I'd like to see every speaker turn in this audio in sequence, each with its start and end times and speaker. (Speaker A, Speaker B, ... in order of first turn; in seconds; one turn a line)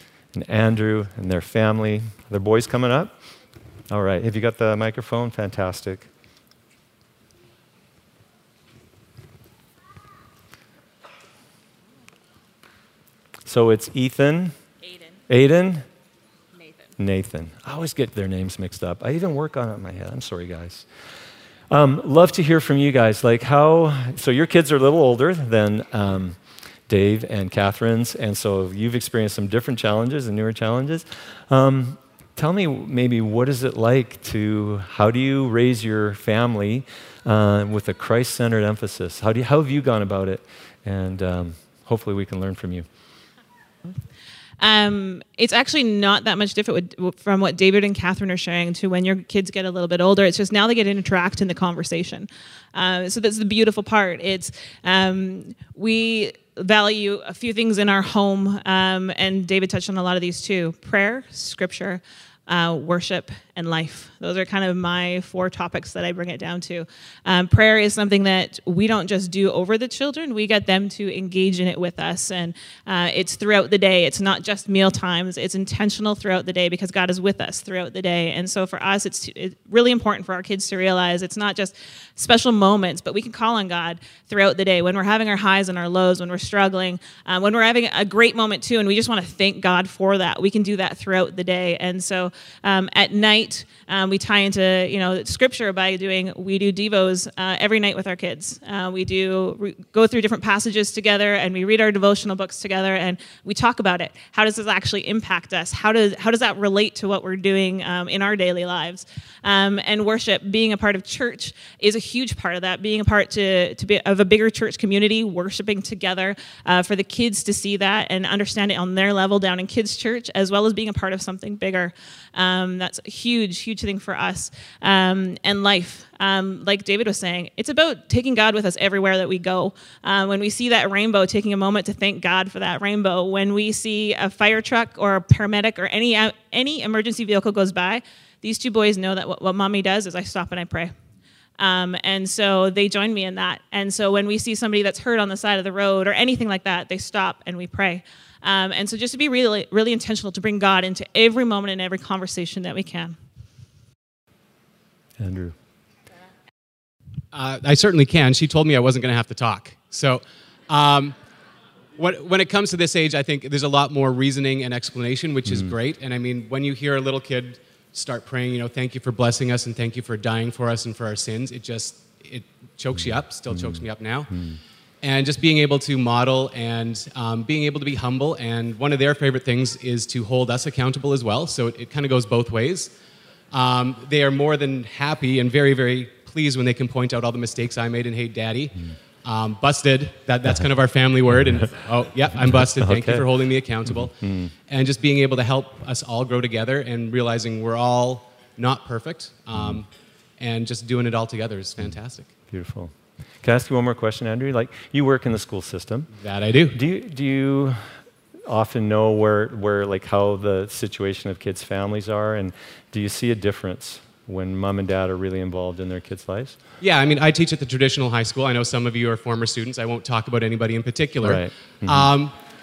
Speaker A: 0.3-3.1
Speaker A: 3.9-6.1
Speaker A: 13.4-14.5
Speaker A: 15.3-15.8
Speaker A: 17.0-20.9
Speaker A: 21.7-26.4
Speaker A: 26.9-42.9
Speaker B: 44.6-140.9
Speaker B: 141.6-153.1
Speaker A: 155.2-155.5
Speaker C: 157.3-161.2
Speaker C: 162.0-174.5
Speaker A: 165.5-165.7
Speaker A: 173.5-174.6
Speaker C: 175.0-182.9
Speaker C: 183.5-202.3
Speaker A: 192.7-193.3
Speaker A: 193.9-194.5
Speaker A: 202.5-206.1
Speaker C: 206.1-206.8
Speaker A: 206.7-207.8
Speaker A: 208.5-216.6
Speaker C: 216.8-222.3
Speaker A: 221.2-222.1